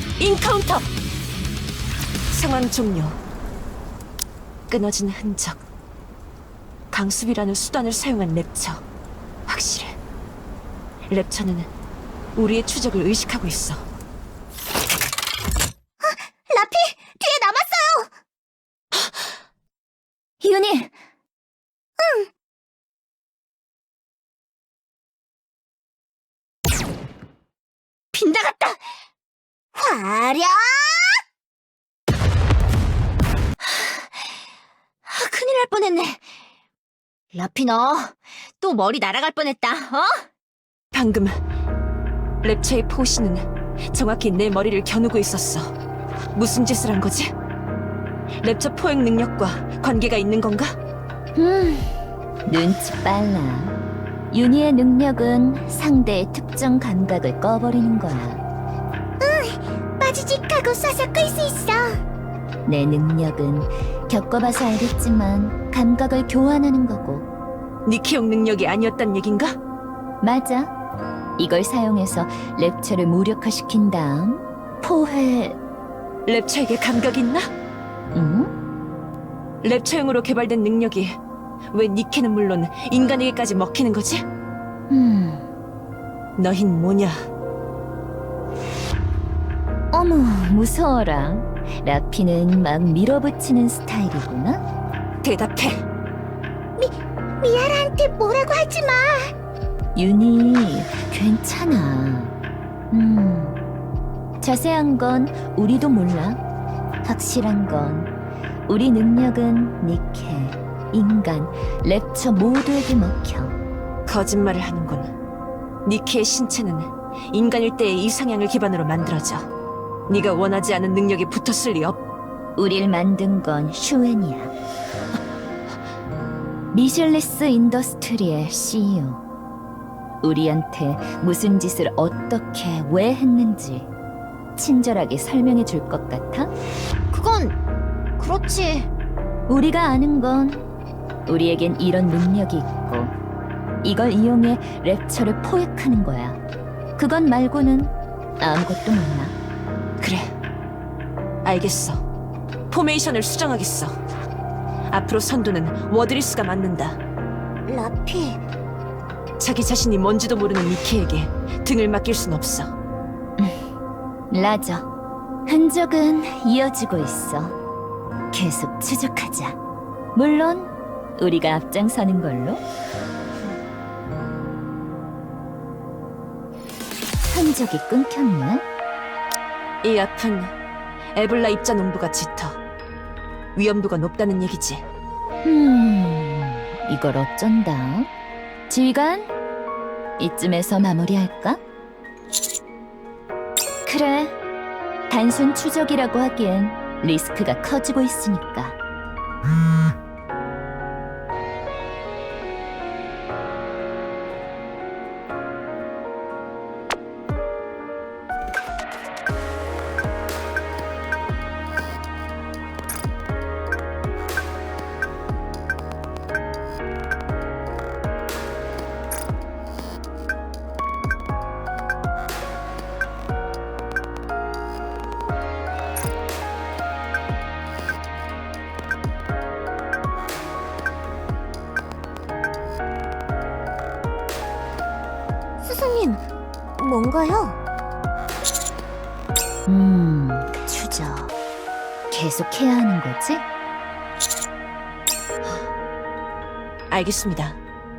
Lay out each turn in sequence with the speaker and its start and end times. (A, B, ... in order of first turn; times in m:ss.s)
0:00.2-0:00.9 A
0:02.3-0:03.2 A
0:04.7-0:05.6 A
0:06.9-0:08.8 A
0:09.5-0:10.0 A
0:11.1-0:11.7 A
0:12.4-0:13.9 A
0:16.0-0:18.1 B
0:20.4-0:21.0 C
0:22.0-0:22.3 B
0:28.1-0:28.8 D
0:29.7-0:31.2 B
0:33.6-0:34.3 D
0:35.0-0:36.2 D
0:37.3-0:40.2 D
0:40.9-0:41.4 A
0:42.4-0:45.7 A
0:46.3-0:47.3 A
0:48.4-0:50.8 A
0:51.3-0:53.8 C
0:54.3-0:58.4 C
0:59.2-1:02.0 B
1:02.6-1:07.3 C
1:07.8-1:09.6 A
1:10.2-1:10.7 C
1:11.4-1:15.6 C
1:16.2-1:17.5 A
1:18.1-1:18.5 C
1:19.6-1:21.2 A
1:21.7-1:24.2 A
1:24.9-1:25.5 C
1:26.4-1:27.3 A
1:29.9-1:34.6 C
1:35.2-1:35.8 A
1:36.8-1:39.3 B
1:39.9-1:42.3 C
1:42.9-1:43.6 C
1:44.4-1:46.4 C
1:47.0-1:48.1 C
1:48.7-1:53.6 C
1:54.0-1:55.1 A
1:55.8-1:59.5 A
2:00.1-2:02.0 A
2:02.6-2:04.5 C
2:06.7-2:09.2 C
2:10.2-2:13.9 C
2:14.6-2:16.5 C
2:17.1-2:17.6 D
2:18.2-2:18.9 D
2:19.5-2:20.7 C
2:21.3-2:23.1 C
2:23.8-2:26.4 C
2:27.0-2:29.3 C
2:30.0-2:30.3 A
2:31.4-2:32.0 A
2:32.7-2:34.0 A
2:34.9-2:37.0 A
2:37.6-2:38.4 B
2:39.4-2:42.7 A
2:44.3-2:44.9 C
2:45.5-2:47.6 C
2:48.3-2:49.6 C
2:50.1-2:52.6 C
2:57.3-2:58.6 C
2:59.8-3:00.5 A
3:01.1-3:02.6 A
3:03.6-3:04.8 A
3:05.4-3:08.1 C
3:08.7-3:09.3 C
3:10.2-3:11.6 C
3:13.8-3:14.4 C
3:15.1-3:18.8 C
3:55.6-3:56.2 B
3:56.8-3:57.6 B
3:59.7-4:01.4 C
4:02.1-4:03.4 C
4:06.9-4:07.6 A